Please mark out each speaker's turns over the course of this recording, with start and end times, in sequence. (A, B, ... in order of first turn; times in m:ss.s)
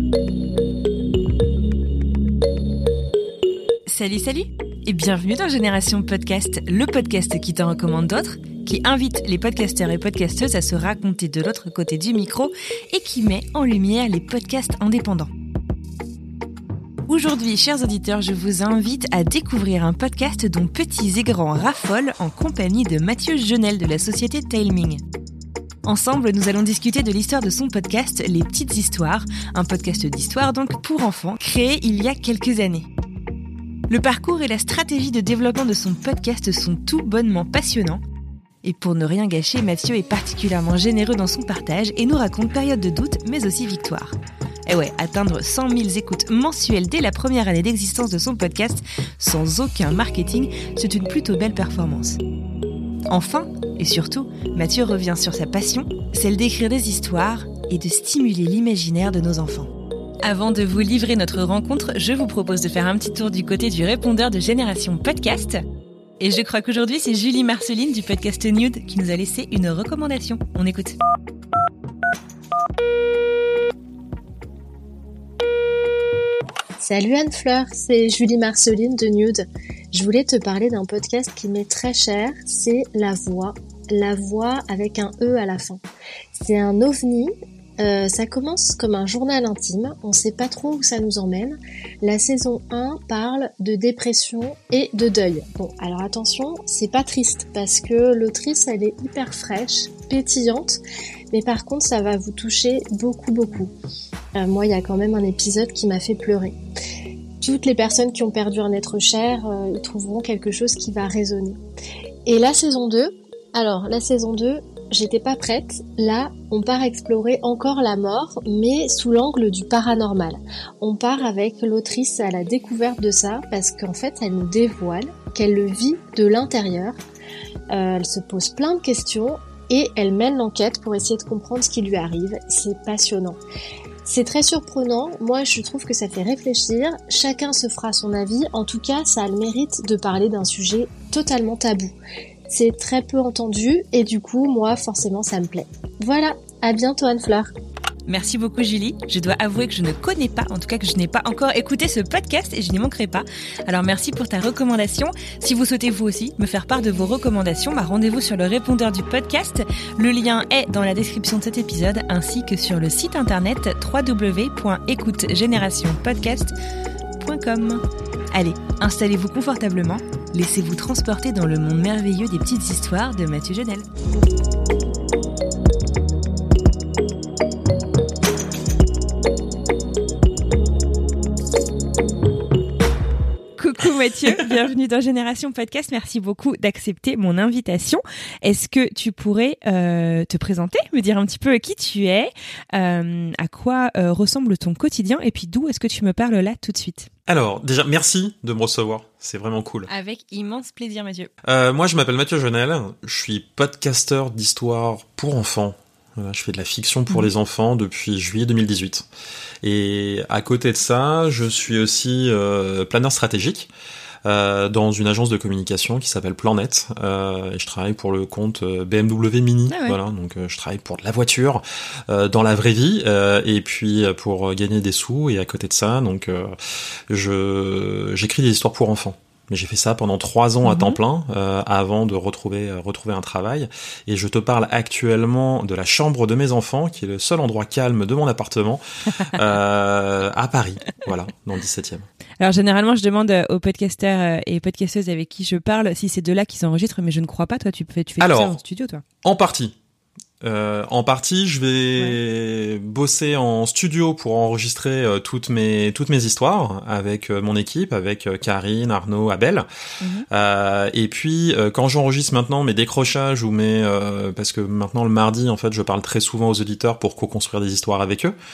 0:03.9-0:15.3 A
0:17.1-0:25.0 A
0:25.8-0:32.9 A
0:33.9-0:38.0 A
0:38.6-0:44.1 A
0:44.7-0:52.2 A
0:53.1-0:59.7 A
1:00.2-1:05.6 A
1:06.2-1:11.0 A
1:16.8-1:25.8 B
1:26.4-1:40.8 B
1:41.3-1:43.7 B
1:44.4-1:46.6 B
1:47.4-1:51.6 B
1:52.3-2:07.0 B
2:07.7-2:13.4 B
2:14.0-2:21.9 B
2:22.5-2:27.5 B
2:28.1-2:46.5 A
2:47.2-2:47.8 A
2:48.3-2:53.9 A
3:03.6-3:17.1 A
3:17.3-3:19.9 C
3:19.9-3:21.3 A
3:21.4-3:29.1 C
3:29.6-3:33.7 C
3:34.2-3:46.6 C
3:39.7-3:40.0 A
3:47.1-4:02.1 C
3:50.6-3:51.0 A
4:02.4-4:09.0 A
4:08.2-4:08.6 C
4:09.2-4:09.8 C
4:10.4-4:19.7 C
4:20.0-4:20.3 A
4:20.3-4:28.4 C